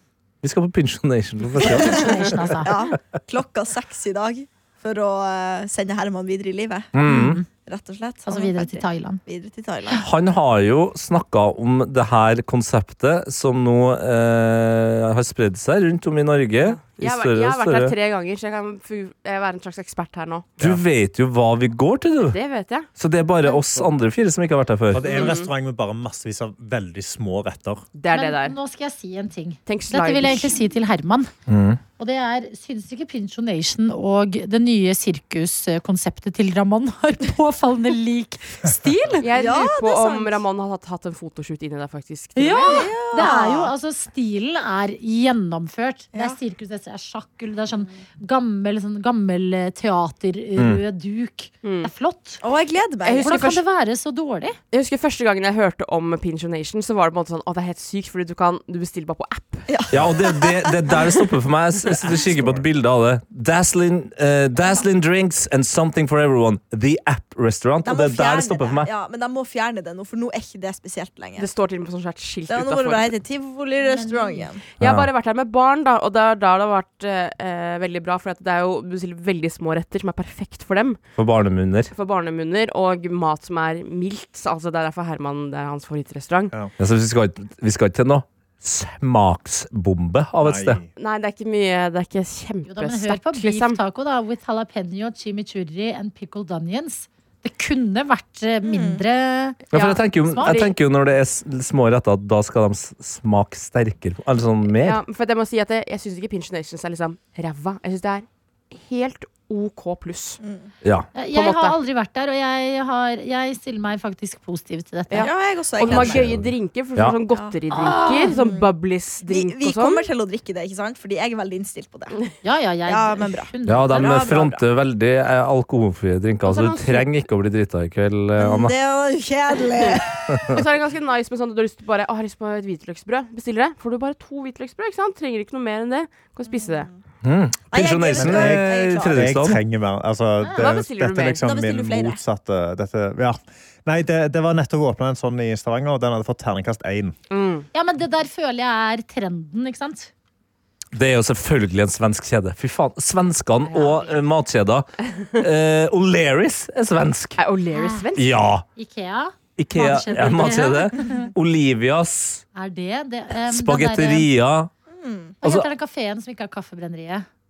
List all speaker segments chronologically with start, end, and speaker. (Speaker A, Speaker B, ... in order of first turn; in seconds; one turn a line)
Speaker A: 0.4-2.9
Speaker B: 1.6-2.1
Speaker C: 1.6-2.7
Speaker B: 2.6-6.9
Speaker A: 6.9-7.4
Speaker C: 7.0-7.5
Speaker B: 7.6-10.1
Speaker C: 8.2-9.2
Speaker A: 10.0-17.9
Speaker D: 16.6-20.5
Speaker A: 20.6-22.4
Speaker D: 22.2-22.9
Speaker A: 22.9-25.3
Speaker E: 24.9-27.9
Speaker D: 25.1-25.5
Speaker D: 27.9-28.6
Speaker C: 28.1-31.3
Speaker D: 29.7-30.6
Speaker A: 31.5-31.8
Speaker C: 32.0-39.3
Speaker D: 39.2-43.2
Speaker B: 39.3-40.4
Speaker C: 42.4-52.4
Speaker B: 42.7-43.7
Speaker A: 50.6-50.8
Speaker D: 51.6-51.9
Speaker B: 52.4-53.5
Speaker D: 53.0-53.6
Speaker C: 53.2-54.6
Speaker D: 54.7-59.7
Speaker B: 59.7-61.2
Speaker A: 59.9-68.9
Speaker E: 62.1-62.6
Speaker B: 67.8-71.5
Speaker D: 71.4-73.1
Speaker B: 72.5-74.6
Speaker C: 73.8-74.5
Speaker D: 74.8-81.0
Speaker A: 74.8-75.1
Speaker A: 81.2-81.9
Speaker D: 81.9-86.5
Speaker A: 86.8-90.8
Speaker E: 90.4-90.9
Speaker D: 91.0-93.8
Speaker C: 92.7-100.7
Speaker B: 98.6-99.0
Speaker A: 99.7-105.0
Speaker D: 100.4-100.7
Speaker D: 104.7-110.4
Speaker B: 110.4-110.7
Speaker A: 110.8-111.1
Speaker C: 111.1-115.3
Speaker D: 111.3-111.8
Speaker D: 115.1-120.1
Speaker B: 115.2-116.3
Speaker A: 115.9-117.2
Speaker B: 117.3-118.7
Speaker C: 117.7-118.4
Speaker B: 119.3-122.2
Speaker C: 122.4-124.1
Speaker B: 122.8-124.6
Speaker A: 123.7-128.8
Speaker D: 126.4-127.2
Speaker B: 128.4-130.5
Speaker A: 130.3-130.6
Speaker D: 130.5-136.9
Speaker B: 136.5-136.9
Speaker A: 137.2-139.6
Speaker B: 137.7-139.2
Speaker E: 138.1-147.1
Speaker C: 140.4-140.7
Speaker D: 140.6-141.4
Speaker B: 141.4-142.2
Speaker D: 147.3-147.7
Speaker C: 147.7-150.1
Speaker A: 150.9-157.4
Speaker C: 153.6-154.2
Speaker D: 157.4-158.3
Speaker C: 157.7-158.1
Speaker A: 158.2-158.7
Speaker C: 158.8-161.3
Speaker A: 159.6-162.4
Speaker C: 162.5-164.3
Speaker A: 163.5-164.7
Speaker B: 164.9-165.3
Speaker A: 165.4-165.7
Speaker C: 165.4-167.2